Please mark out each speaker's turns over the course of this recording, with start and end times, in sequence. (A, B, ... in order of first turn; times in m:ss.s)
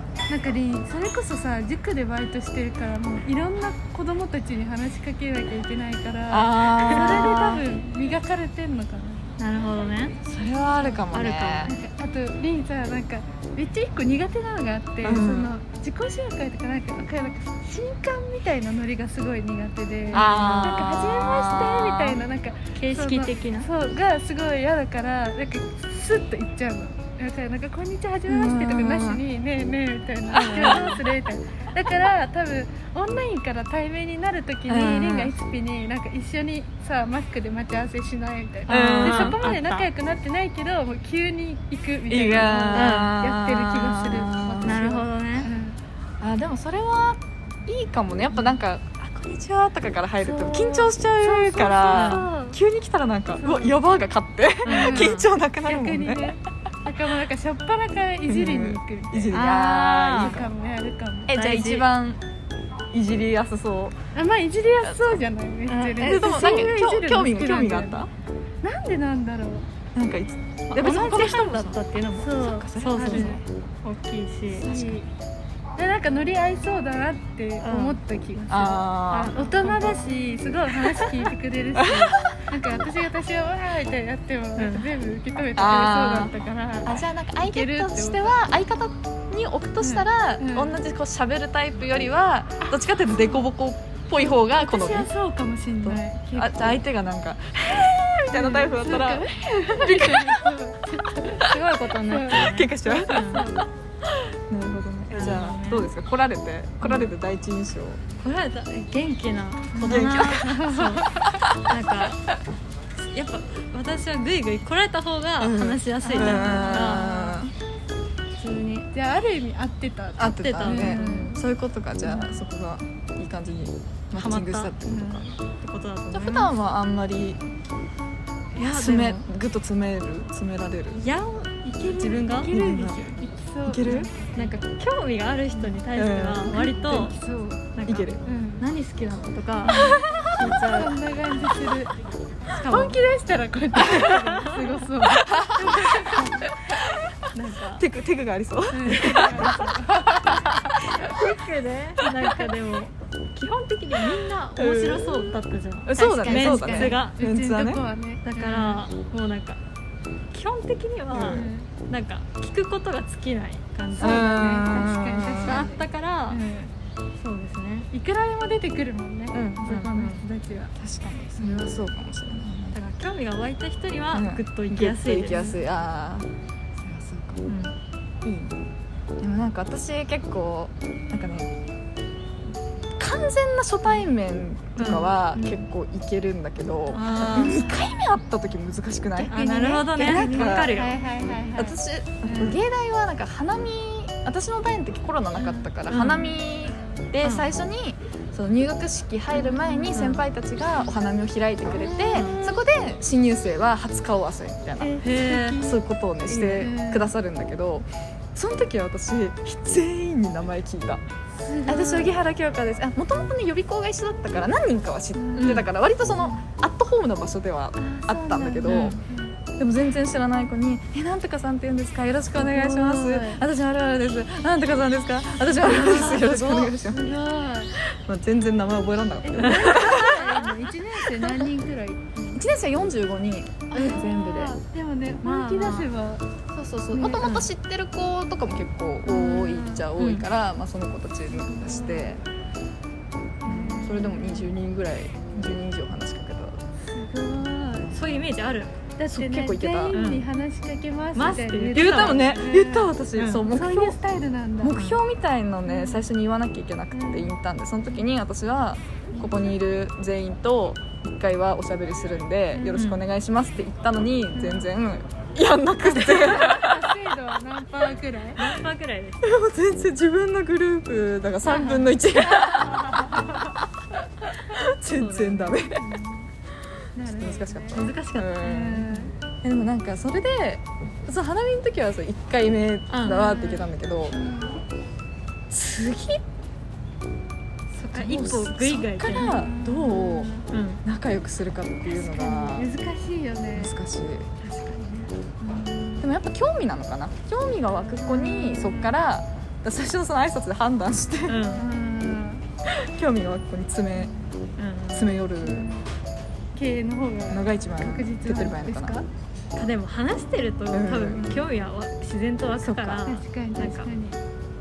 0:00.3-0:09.4 A
0:06.3-0:07.6 B
0:09.4-0:10.2 C
0:10.2-0:11.7 B
0:11.1-0:11.8 C
0:11.6-0:45.8 A
0:15.0-0:15.5 B
0:20.1-0:22.2 B
0:20.1-0:20.9 C
0:22.8-0:23.7 C
0:28.3-0:29.2 B
0:30.3-0:31.0 C
0:30.3-0:30.8 B
0:34.7-0:35.3 B
0:38.7-0:39.9 C
0:38.7-0:39.4 B
0:42.1-0:44.8 B
0:42.7-0:43.2 C
0:44.6-0:45.5 C
0:46.2-0:56.4 B
0:50.2-0:52.6 A
0:51.9-0:52.2 C
0:53.4-0:53.8 A
0:54.6-0:55.3 C
0:54.6-1:01.4 A
0:58.3-1:00.5 B
0:59.3-1:00.4 C
1:01.3-1:02.2 B
1:01.3-1:01.9 C
1:02.9-1:04.0 B
1:04.1-1:08.0 A
1:04.8-1:05.2 B
1:05.7-1:06.7 C
1:06.0-1:08.1 B
1:08.6-1:09.7 A
1:09.9-1:11.8 B
1:10.7-1:14.7 C
1:12.2-1:13.4 A
1:12.3-1:13.4 B
1:14.6-1:15.0 B
1:14.6-1:15.1 A
1:15.8-1:28.4 A
1:17.6-1:18.0 C
1:18.5-1:19.4 B
1:19.4-1:20.0 C
1:21.8-1:22.4 B
1:24.6-1:24.9 C
1:25.6-1:26.3 B
1:26.8-1:35.1 B
1:29.8-1:30.8 A
1:34.2-1:36.8 A
1:35.8-1:40.6 B
1:38.3-1:41.5 A
1:41.4-1:43.5 C
1:42.0-1:43.6 A
1:42.3-1:43.4 B
1:44.0-1:48.0 B
1:45.1-1:45.9 C
1:46.8-1:47.1 C
1:48.2-1:52.3 C
1:49.7-1:51.4 A
1:49.8-1:50.5 B
1:53.0-1:57.4 C
1:55.4-1:57.5 B
1:56.0-1:57.4 A
1:58.4-1:58.9 C
1:58.9-2:01.4 A
2:00.2-2:05.2 B
2:00.3-2:01.4 C
2:04.1-2:04.7 C
2:04.9-2:05.3 A
2:05.5-2:06.5 C
2:06.1-2:07.4 B
2:08.6-2:09.2 C
2:08.6-2:11.1 B
2:11.0-2:12.5 C
2:11.6-2:14.5 A
2:12.5-2:13.1 B
2:13.6-2:14.1 B
2:14.3-2:17.2 C
2:15.9-2:16.6 B
2:16.5-2:17.7 A
2:17.7-2:21.0 C
2:17.8-2:18.2 B
2:18.2-2:18.6 A
2:19.6-2:21.9 A
2:19.8-2:20.3 B
2:22.5-2:23.0 C
2:22.6-2:26.5 A
2:23.8-2:24.8 C
2:25.3-2:27.0 B
2:27.3-2:27.8 C
2:27.8-2:31.2 B
2:28.7-2:30.8 A
2:30.9-2:37.2 C
2:34.6-2:37.8 B
2:36.0-2:38.8 A
2:38.2-2:39.6 C
2:40.3-2:44.3 C
2:41.1-2:41.5 B
2:41.2-2:41.7 A
2:43.9-2:46.7 A
2:44.0-2:45.7 B
2:45.4-2:46.4 C
2:47.2-2:47.9 C
2:47.9-2:50.7 A
2:49.3-2:50.2 C
2:50.8-2:52.8 B
2:51.4-2:51.8 C
2:52.7-2:55.6 C
2:54.1-2:56.3 B
2:56.8-2:57.6 B
2:57.5-2:57.7 C
2:58.2-2:58.6 B
2:59.2-3:01.5 B
3:03.0-3:09.3 B
3:04.8-3:05.6 C
3:06.9-3:07.7 C
3:07.0-3:07.8 A
3:09.2-3:12.6 A
3:09.3-3:11.0 C
3:09.9-3:10.8 B
3:11.6-3:25.0 B
3:15.9-3:16.3 C
3:17.2-3:17.6 C
3:19.3-3:20.1 A
3:19.9-3:20.2 C
3:22.1-3:22.4 C
3:24.8-3:25.8 A
3:25.0-3:25.6 C
3:25.6-3:31.0 B
3:26.3-3:26.7 C
3:26.5-3:27.1 A
3:31.3-3:32.2 A
3:31.6-3:39.0 B
3:35.2-3:35.6 A
3:35.4-3:35.7 C
3:36.2-3:36.4 A
3:37.8-3:39.4 A
3:38.6-3:39.0 C
3:39.6-3:47.1 B
3:42.4-3:43.4 A
3:45.7-3:46.7 C
3:45.7-3:47.7 A
3:47.7-3:50.4 B
3:49.2-3:52.4 A
3:51.2-3:51.4 B
3:52.3-3:54.6 B
3:53.7-3:56.2 A
3:55.2-3:55.9 C
3:56.5-4:02.2 B
3:56.9-3:57.3 A
3:57.2-3:57.5 C
3:59.0-3:59.9 A
4:00.0-4:00.3 C
4:01.4-4:02.1 A
4:03.4-4:04.5 A
4:03.4-4:06.6 B
4:06.9-4:07.9 A
4:07.6-4:08.3 B
4:07.9-4:08.7 C
4:09.0-4:14.8 A
4:09.1-4:10.0 B
4:09.9-4:10.2 C
4:11.1-4:12.4 C
4:11.7-4:14.0 B
4:13.1-4:13.5 C
4:14.6-4:26.9 B
4:15.6-4:16.0 A
4:16.9-4:17.3 A
4:19.1-4:19.4 A
4:22.5-4:22.8 A
4:22.7-4:23.0 C
4:24.3-4:24.7 A
4:25.8-4:28.5 A
4:28.4-4:29.3 C
4:29.2-4:33.4 B
4:31.5-4:31.9 A
4:34.2-4:35.9 B
4:34.9-4:35.6 C
4:35.7-4:36.3 A
4:36.9-4:39.1 A
4:37.1-4:38.9 B
4:37.7-4:39.0 C
4:39.4-4:44.2 B
4:42.9-4:43.5 C
4:44.1-4:44.6 A
4:45.5-4:46.2 B
4:47.8-4:49.4 C
4:47.9-4:52.7 B
4:49.1-4:50.5 A
4:50.5-4:50.8 C
4:51.9-4:53.7 A
4:53.5-4:54.3 B
4:54.5-4:56.0 A
4:56.0-5:01.4 B
4:58.0-4:59.0 A
5:01.3-5:01.6 C
5:01.5-5:02.4 A
5:02.6-5:04.1 B
5:04.6-5:05.1 C
5:04.9-5:05.7 B
5:05.4-5:05.8 A
5:06.5-5:09.0 A
5:07.3-5:09.0 B
5:09.5-5:13.9 C
5:10.7-5:11.4 B
5:12.6-5:13.0 B
5:13.0-5:14.2 A